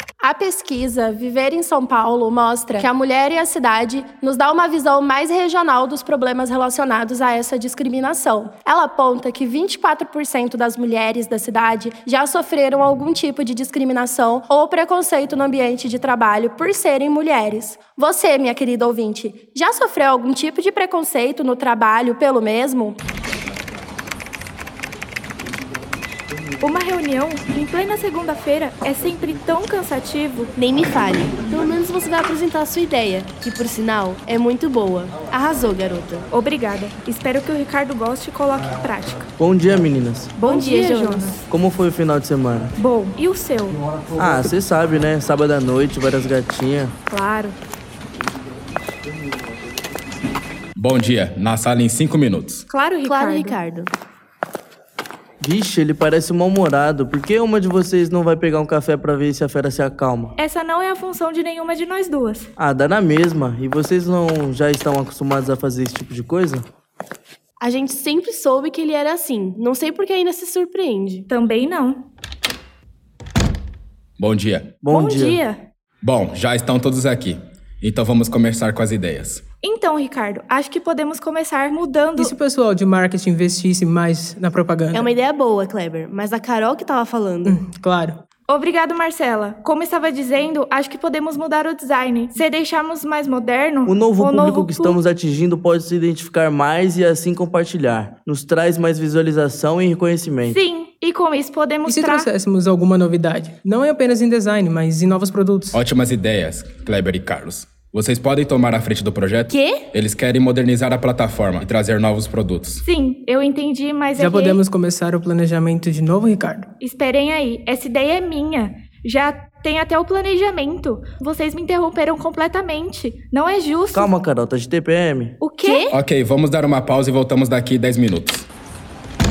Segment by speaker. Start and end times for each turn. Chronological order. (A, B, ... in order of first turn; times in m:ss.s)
0:00.2-0:23.0 A
0:26.6-0:30.5 B
0:30.6-0:36.2 C
0:36.3-0:39.3 B
0:39.4-0:40.3 D
0:40.4-0:41.4 B
0:40.4-0:41.4 C
0:41.5-0:42.7 D
0:42.8-0:43.8 B
0:44.2-0:47.0 D
0:47.1-0:47.6 B
0:50.8-0:52.6 E
0:52.7-0:53.6 B
0:53.0-0:53.9 C
0:55.4-1:00.4 D
1:00.4-1:02.5 B
1:02.6-1:06.6 D
1:07.6-1:11.3 C
1:11.3-1:12.0 B
1:14.2-1:14.8 E
1:14.8-1:15.4 D
1:14.9-1:15.6 B
1:16.0-1:19.4 E
1:19.6-1:22.3 B
1:22.2-1:25.1 F
1:24.9-1:27.6 C
1:27.4-1:28.2 F
1:28.5-1:35.0 B
1:33.9-1:40.6 D
1:40.5-1:42.3 B
1:41.9-1:45.8 F
1:45.7-1:52.8 E
1:49.5-1:49.9 C
1:52.8-1:54.6 B
1:54.2-1:56.7 F
1:56.8-2:04.1 B
2:03.9-2:05.4 D
2:05.4-2:05.9 B
2:05.6-2:06.0 C
2:05.9-2:08.4 E